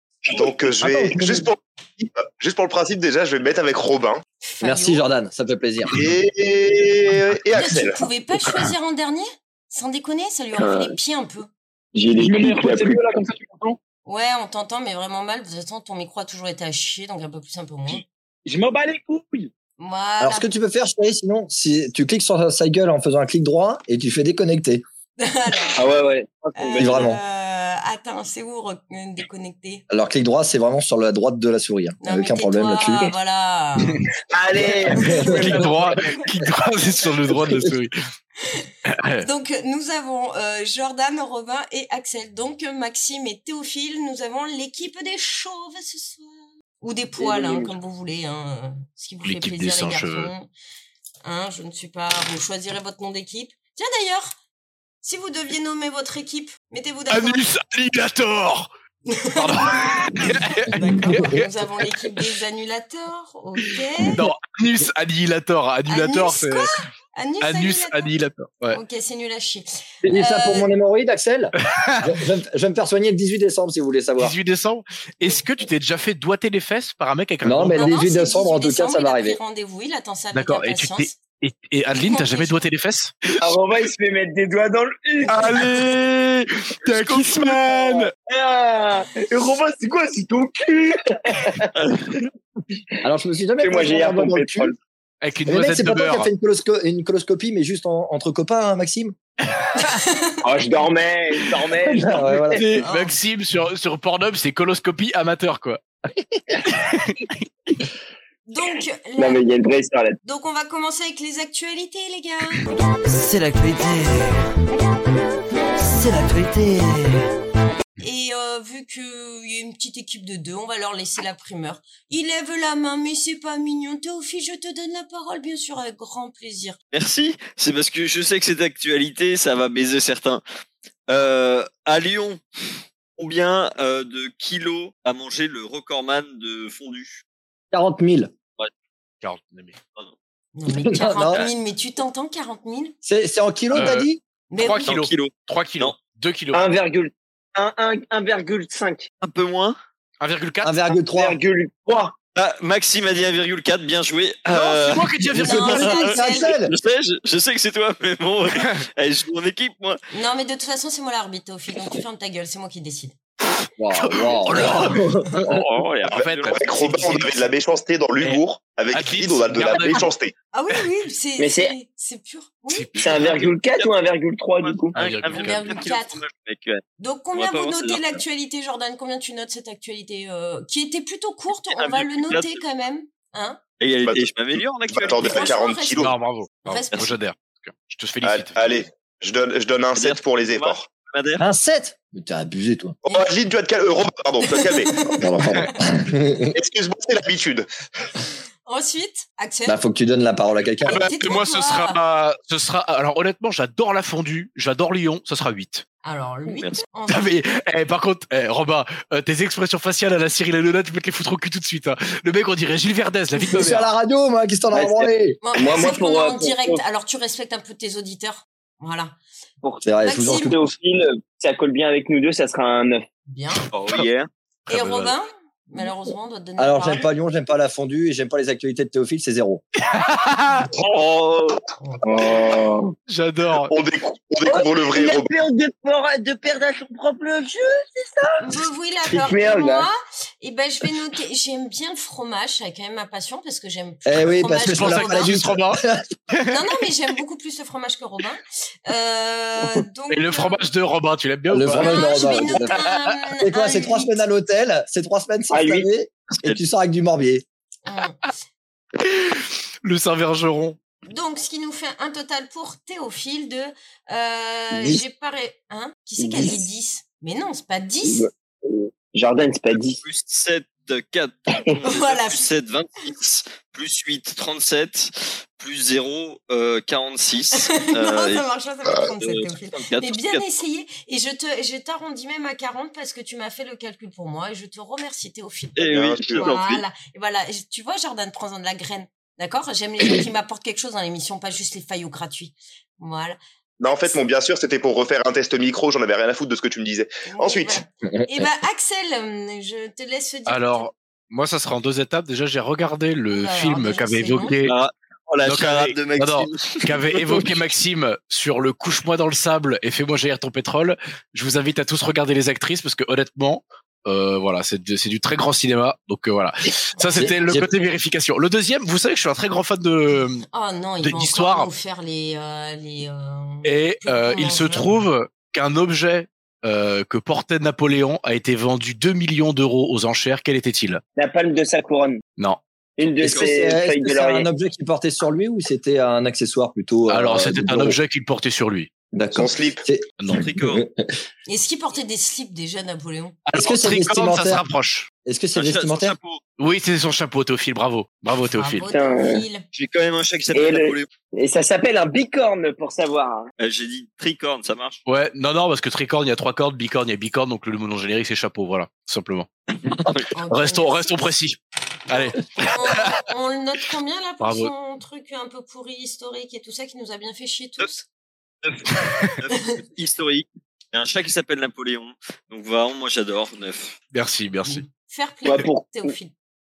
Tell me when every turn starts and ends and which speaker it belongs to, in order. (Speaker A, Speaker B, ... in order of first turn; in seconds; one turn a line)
Speaker A: 0.3-4.2
Speaker B: 0.4-1.4
Speaker C: 4.4-5.0
Speaker D: 4.6-6.0
Speaker A: 5.9-8.0
Speaker C: 7.5-11.5
Speaker E: 10.6-10.9
Speaker E: 11.9-13.0
Speaker B: 12.2-13.8
Speaker C: 14.1-18.0
Speaker E: 18.4-19.5
Speaker C: 19.8-20.5
Speaker D: 20.2-24.8
Speaker C: 25.2-25.8
Speaker E: 25.8-27.1
Speaker C: 26.6-29.8
Speaker D: 26.8-27.2
Speaker D: 29.9-33.1
Speaker C: 32.0-34.0
Speaker E: 34.3-36.2
Speaker D: 34.9-35.3
Speaker F: 35.2-37.9
Speaker C: 38.5-50.5
Speaker F: 38.9-39.3
Speaker E: 47.2-47.7
Speaker F: 49.2-50.3
Speaker C: 51.2-54.4
Speaker C: 55.0-57.4
Speaker F: 57.1-58.7
Speaker C: 59.1-64.2
Speaker F: 59.3-61.9
Speaker F: 64.1-66.7
Speaker C: 65.9-68.1
Speaker F: 67.4-68.8
Speaker C: 68.7-70.7
Speaker D: 70.0-74.3
Speaker F: 71.6-72.1
Speaker F: 74.2-77.9
Speaker D: 77.4-79.4
Speaker C: 77.7-81.1
Speaker F: 80.3-83.4
Speaker C: 81.9-82.6
Speaker E: 83.4-85.8
Speaker F: 85.2-88.1
Speaker E: 86.9-91.7
Speaker G: 91.8-92.2
Speaker D: 93.0-94.7
Speaker E: 93.6-94.8
Speaker F: 95.2-96.3
Speaker D: 95.5-99.1
Speaker C: 99.8-100.4
Speaker E: 100.4-102.6
Speaker D: 101.8-102.6
Speaker F: 102.5-105.8
Speaker C: 102.8-103.2
Speaker F: 106.6-107.4
Speaker C: 108.5-109.4
Speaker E: 109.2-110.2
Speaker C: 110.2-112.6
Speaker H: 113.0-114.5
Speaker H: 115.8-117.3
Speaker C: 118.0-126.8
Speaker G: 126.9-130.4
Speaker G: 131.1-132.4
Speaker G: 133.2-137.2
Speaker D: 137.7-138.3
Speaker F: 139.2-139.8
Speaker C: 140.6-142.9
Speaker D: 140.8-141.4
Speaker D: 143.0-144.2
Speaker F: 143.7-146.7
Speaker C: 144.5-144.9
Speaker G: 144.8-145.9
Speaker E: 146.5-149.1
Speaker G: 149.2-149.8
Speaker F: 150.2-150.8
Speaker D: 150.6-151.4
Speaker E: 151.0-152.1
Speaker G: 152.3-155.2
Speaker F: 154.5-155.9
Speaker D: 155.3-156.7
Speaker C: 155.3-156.5
Speaker G: 155.8-160.0
Speaker C: 160.1-163.1
Speaker D: 163.8-165.6
Speaker F: 163.9-165.6
Speaker G: 165.4-166.6
Speaker F: 166.1-167.5
Speaker A: 166.4-170.3
Speaker F: 168.9-170.1
Speaker C: 170.5-172.9
Speaker E: 171.4-171.7
Speaker F: 172.7-173.3
Speaker E: 172.9-174.9
Speaker G: 173.0-173.9
Speaker G: 174.6-176.8
Speaker F: 174.9-175.8
Speaker C: 175.3-176.2
Speaker C: 177.0-183.6
Speaker G: 177.3-178.2
Speaker G: 181.7-182.6
Speaker G: 183.8-185.6
Speaker A: 184.0-184.3
Speaker A: 184.9-186.2
Speaker C: 185.2-186.1
Speaker F: 186.0-188.8
Speaker C: 186.6-187.1
Speaker A: 188.2-190.8
Speaker G: 189.9-191.4
Speaker D: 191.4-192.9
Speaker A: 193.0-195.1
Speaker C: 194.4-195.7
Speaker D: 195.2-196.5
Speaker A: 196.5-197.7
Speaker C: 198.7-199.8
Speaker D: 199.7-201.0
Speaker F: 200.8-205.8
Speaker C: 200.9-202.0
Speaker C: 206.0-207.3
Speaker G: 206.5-206.8
Speaker F: 207.1-213.9
Speaker D: 213.5-215.4
Speaker E: 214.7-216.8
Speaker C: 215.4-219.2
Speaker E: 219.6-223.0
Speaker D: 219.8-220.7
Speaker C: 220.0-220.5
Speaker C: 223.3-223.7
Speaker G: 223.7-224.3
Speaker F: 224.7-225.1
Speaker C: 224.7-227.1
Speaker D: 226.6-229.6
Speaker F: 229.9-230.7
Speaker E: 230.7-232.9
Speaker C: 231.8-232.1
Speaker F: 233.1-233.7
Speaker A: 233.7-235.3
Speaker E: 234.4-239.9
Speaker C: 238.4-245.4
Speaker D: 244.1-246.0
Speaker F: 244.6-246.6
Speaker C: 246.5-250.6
Speaker F: 250.1-252.8
Speaker D: 251.5-252.8
Speaker C: 251.7-254.2
Speaker D: 253.4-257.4
Speaker E: 255.5-255.9
Speaker C: 257.9-258.2
Speaker F: 259.0-260.8
Speaker C: 261.1-268.3
Speaker E: 266.2-266.6
Speaker E: 268.1-270.0
Speaker G: 270.0-278.4
Speaker C: 271.8-272.5
Speaker C: 277.6-285.8
Speaker G: 279.0-280.4
Speaker G: 285.8-286.8
Speaker A: 285.8-286.5
Speaker C: 286.3-293.4
Speaker A: 293.8-297.8
Speaker C: 297.2-300.9
Speaker D: 298.1-298.4
Speaker F: 300.5-304.8
Speaker C: 303.3-304.5
Speaker G: 304.6-307.5
Speaker F: 305.4-320.4
Speaker C: 316.9-317.4
Speaker D: 317.2-317.7
Speaker C: 320.5-325.1
Speaker F: 321.0-321.7
Speaker F: 323.6-331.0
Speaker E: 331.1-332.2
Speaker E: 333.0-334.4
Speaker G: 333.2-333.5
Speaker D: 333.2-338.0
Speaker F: 337.1-338.9
Speaker D: 339.1-341.0
Speaker A: 339.3-339.8
Speaker F: 340.2-340.5
Speaker G: 340.3-340.8
Speaker C: 341.5-343.4
Speaker F: 343.5-345.1
Speaker D: 343.5-344.6
Speaker D: 345.2-346.1
Speaker G: 345.5-346.4
Speaker F: 346.6-348.9
Speaker C: 348.5-349.6
Speaker E: 348.9-349.4
Speaker G: 349.7-351.1
Speaker E: 350.5-353.5
Speaker G: 353.6-355.0
Speaker F: 355.1-360.0
Speaker C: 360.3-361.3
Speaker F: 360.5-361.6
Speaker F: 362.1-363.2
Speaker C: 362.1-368.1
Speaker F: 364.4-364.7
Speaker G: 368.6-373.9
Speaker F: 369.0-369.4
Speaker F: 374.1-374.8
Speaker C: 374.6-376.3
Speaker E: 375.4-375.9